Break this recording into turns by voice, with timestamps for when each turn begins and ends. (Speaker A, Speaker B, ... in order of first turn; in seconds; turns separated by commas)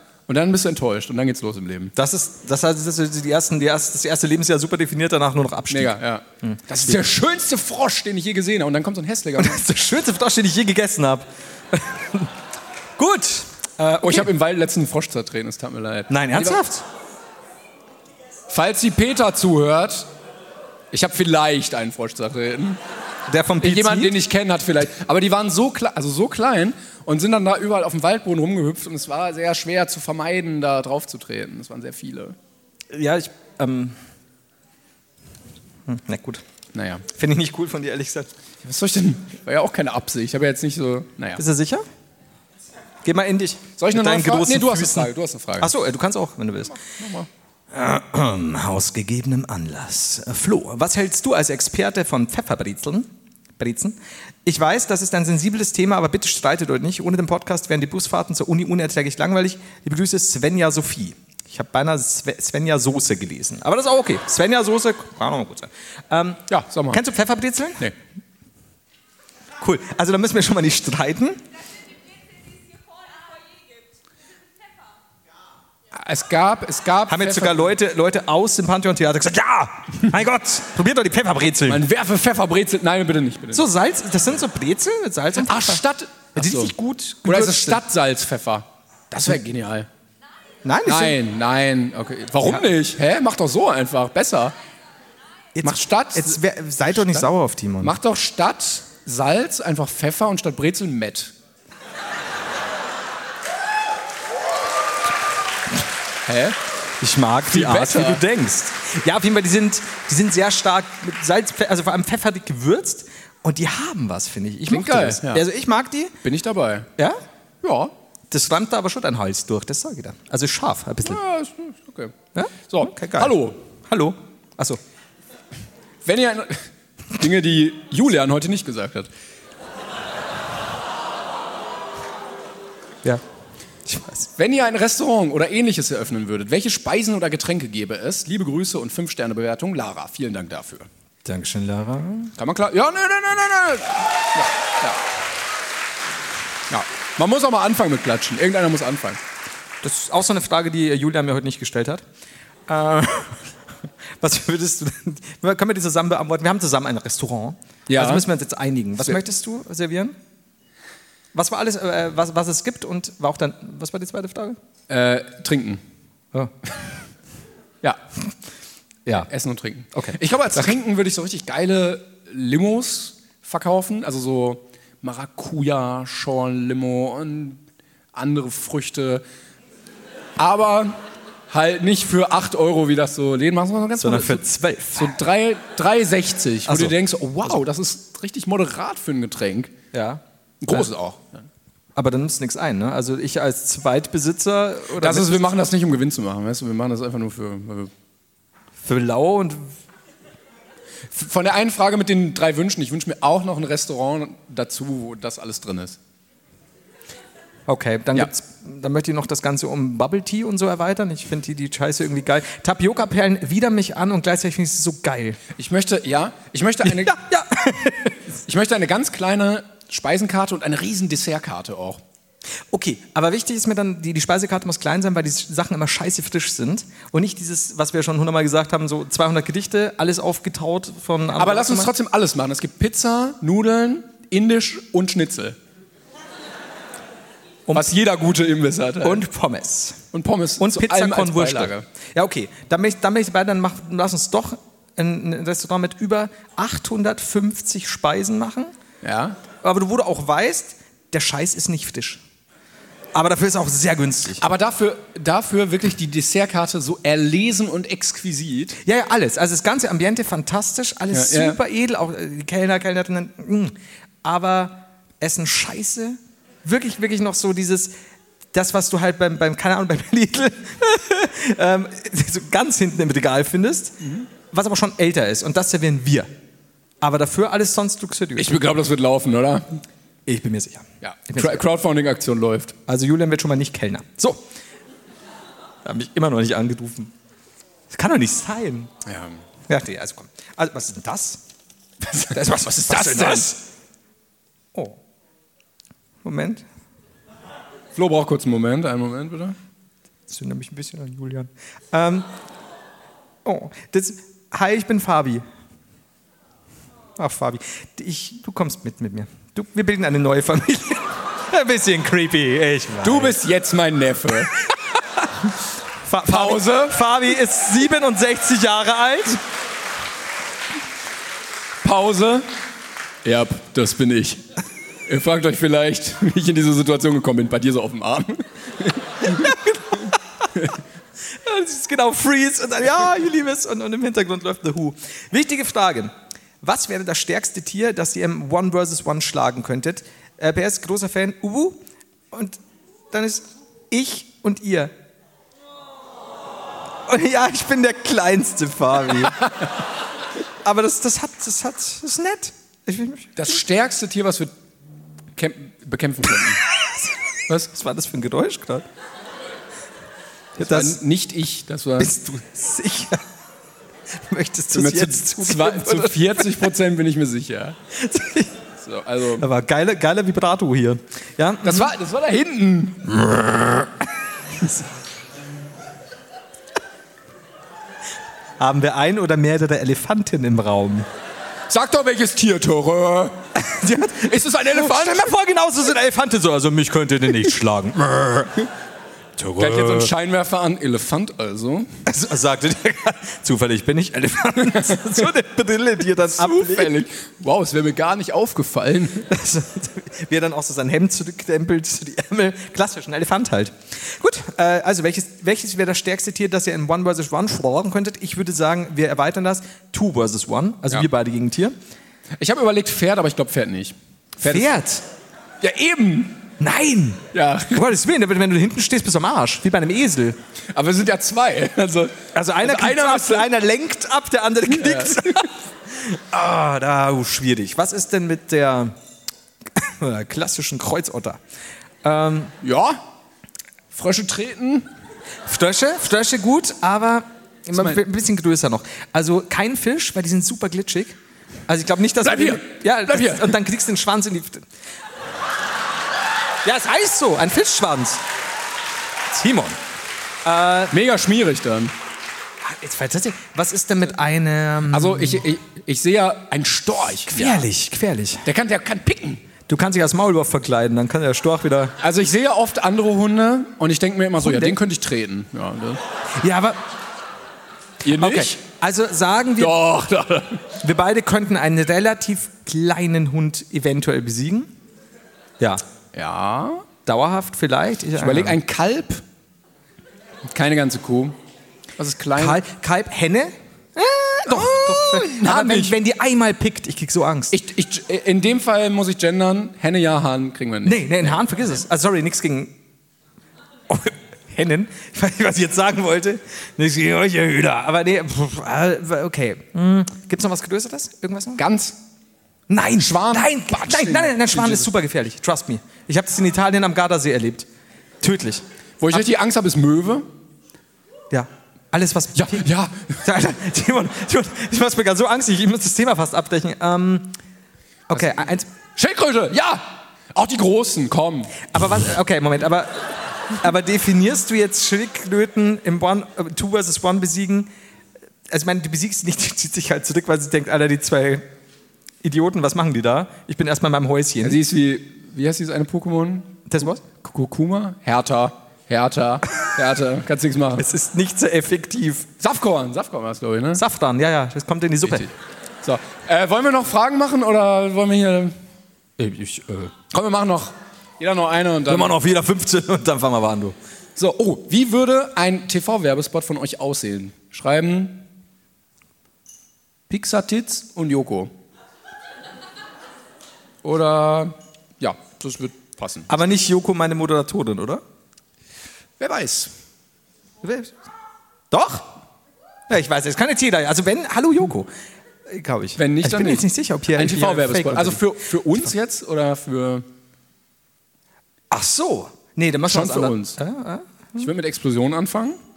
Speaker A: 0.3-1.9, Speaker B: 1.9-7.0, Speaker A: 5.7-9.6, Speaker B: 9.4-12.3, Speaker B: 13.0-14.3, Speaker A: 14.0-16.6, Speaker B: 16.1-16.8, Speaker A: 18.5-20.1, Speaker A: 20.9-22.8, Speaker B: 23.3-24.2, Speaker A: 23.6-32.4, Speaker B: 32.9-34.0, Speaker B: 35.9-36.4, Speaker A: 36.7-37.0, Speaker B: 37.0-38.3, Speaker A: 38.6-41.4, Speaker B: 41.4-41.8, Speaker B: 43.0-46.8, Speaker A: 43.8-45.7, Speaker A: 46.7-47.3, Speaker B: 47.7-67.9, Speaker A: 66.5-67.0, Speaker B: 69.6-71.4, Speaker A: 75.9-77.7, Speaker B: 77.1-81.8, Speaker A: 81.7-83.7, Speaker B: 83.5-85.8, Speaker A: 85.4-86.7, Speaker B: 86.3-87.8, Speaker A: 87.2-89.9, Speaker B: 90.6-91.2, Speaker A: 90.8-94.5, Speaker B: 95.5-98.0, Speaker A: 95.6-96.4, Speaker A: 96.9-97.3, Speaker A: 97.8-101.3, Speaker A: 106.2-106.6, Speaker B: 107.0-116.2, Speaker A: 107.5-108.2, Speaker A: 114.7-115.4, Speaker A: 116.2-116.9, Speaker A: 117.6-117.9, Speaker B: 118.3-121.2, Speaker A: 121.0-122.1, Speaker B: 122.3-124.8, Speaker A: 122.7-123.6, Speaker A: 126.0-129.1, Speaker B: 133.8-134.3, Speaker A: 134.3-140.9, Speaker B: 141.2-142.3, Speaker A: 142.4-145.0, Speaker A: 146.7-149.2, Speaker B: 149.8-152.0, Speaker B: 152.7-153.5, Speaker B: 154.2-160.2, Speaker A: 157.9-158.2, Speaker B: 161.3-164.6, Speaker A: 164.9-165.8, Speaker A: 169.3-177.6, Speaker B: 169.9-170.2, Speaker A: 178.1-179.2, Speaker A: 180.4-184.4, Speaker B: 184.0-185.2, Speaker A: 184.9-189.7, Speaker B: 186.7-186.9, Speaker B: 189.9-190.9, Speaker A: 190.6-191.4, Speaker B: 191.9-195.5, Speaker A: 194.9-197.9, Speaker B: 198.8-199.7, Speaker A: 201.1-206.0, Speaker B: 207.7-215.4, Speaker A: 215.6-217.1, Speaker B: 216.8-218.1, Speaker A: 218.4-222.0, Speaker B: 222.7-231.9, Speaker A: 231.3-235.6, Speaker B: 237.7-237.9, Speaker A: 237.7-239.2, Speaker B: 239.0-240.0, Speaker A: 240.1-241.8, Speaker B: 240.6-248.7, Speaker A: 249.0-249.4, Speaker B: 249.6-252.2, Speaker B: 253.1-254.4, Speaker A: 254.4-258.8, Speaker B: 258.8-267.9, Speaker A: 261.1-261.6, Speaker B: 268.5-276.3, Speaker B: 277.0-278.6, Speaker A: 278.4-279.8, Speaker B: 280.2-281.6, Speaker A: 281.0-282.8, Speaker B: 282.9-284.4, Speaker B: 285.8-287.1, Speaker B: 287.9-288.9, Speaker A: 289.0-289.4, Speaker B: 289.7-291.4, Speaker B: 292.1-293.6, Speaker A: 292.8-293.5, Speaker B: 294.7-295.0, Speaker B: 296.2-296.6, Speaker A: 297.9-299.6, Speaker B: 300.3-302.3, Speaker B: 303.4-305.4, Speaker B: 307.1-313.4, Speaker A: 313.0-314.6, Speaker B: 316.0-319.4, Speaker A: 316.3-317.0, Speaker A: 321.8-322.4, Speaker A: 323.2-324.4, Speaker A: 325.1-329.6, Speaker B: 329.3-330.5, Speaker B: 331.3-341.8, Speaker B: 342.3-342.6, Speaker B: 343.1-344.9, Speaker B: 347.1-349.6, Speaker B: 350.6-353.5, Speaker A: 353.4-354.5, Speaker A: 355.3-356.6, Speaker B: 357.5-358.9, Speaker A: 360.6-362.1, Speaker B: 360.6-361.0, Speaker B: 362.0-363.2, Speaker B: 364.2-366.6, Speaker A: 364.7-367.8, Speaker B: 367.9-368.6, Speaker A: 368.8-369.4, Speaker B: 369.4-371.9, Speaker A: 371.6-373.2, Speaker B: 373.1-373.9, Speaker B: 378.6-381.1, Speaker A: 381.7-383.4, Speaker B: 383.5-388.5, Speaker A: 384.2-385.3, Speaker B: 389.4-390.1, Speaker A: 389.6-392.0, Speaker B: 392.1-397.0, Speaker A: 396.2-399.3, Speaker B: 399.3-411.8, Speaker A: 412.4-414.7, Speaker B: 414.4-415.0, Speaker A: 415.6-416.4, Speaker B: 416.6-420.4, Speaker A: 417.3-417.9, Speaker A: 420.7-423.5, Speaker B: 422.3-428.9, Speaker A: 424.7-425.5, Speaker B: 429.7-431.4, Speaker B: 432.0-432.5, Speaker A: 432.6-433.0, Speaker A: 433.9-434.9, Speaker B: 435.4-444.6, Speaker A: 442.2-443.5, Speaker B: 446.6-448.2, Speaker B: 449.3-449.8, Speaker B: 450.4-450.9, Speaker A: 450.9-451.9, Speaker B: 452.6-455.4, Speaker A: 454.9-457.6, Speaker B: 457.3-458.4, Speaker A: 458.4-459.4, Speaker B: 459.7-461.9, Speaker A: 462.0-466.0, Speaker B: 464.4-464.8, Speaker B: 466.4-466.8, Speaker A: 468.0-468.6, Speaker B: 468.1-469.9, Speaker A: 469.6-470.7, Speaker B: 470.8-474.7, Speaker A: 476.1-476.9, Speaker B: 477.1-478.6, Speaker A: 478.2-479.2, Speaker A: 480.5-481.4, Speaker A: 482.0-482.6, Speaker B: 482.4-487.5, Speaker A: 484.5-485.9, Speaker A: 487.5-491.4, Speaker B: 490.8-492.8, Speaker B: 493.9-501.6, Speaker A: 501.6-502.0, Speaker B: 502.7-507.7, Speaker A: 503.0-504.9, Speaker B: 508.2-509.2, Speaker A: 509.0-510.3, Speaker B: 511.3-512.6, Speaker A: 512.3-513.2, Speaker B: 513.2-517.4, Speaker B: 518.1-518.7, Speaker A: 519.0-521.7, Speaker B: 521.7-527.7, Speaker B: 528.5-531.5, Speaker B: 532.2-534.6, Speaker A: 534.4-540.9, Speaker B: 536.7-537.0, Speaker B: 540.8-542.3, Speaker A: 542.4-543.8, Speaker B: 543.7-545.3, Speaker A: 545.0-548.5, Speaker B: 549.2-549.9, Speaker A: 550.1-552.1, Speaker B: 551.9-553.8, Speaker A: 554.1-558.2, Speaker A: 560.1-561.5, Speaker A: 563.8-566.3, Speaker B: 566.3-568.0, Speaker A: 569.2-569.7, Speaker B: 570.6-571.0, Speaker B: 571.7-572.1, Speaker B: 572.9-574.9, Speaker B: 575.5-578.3, Speaker A: 576.0-580.0, Speaker B: 581.7-584.5, Speaker A: 582.9-583.6, Speaker A: 584.4-585.6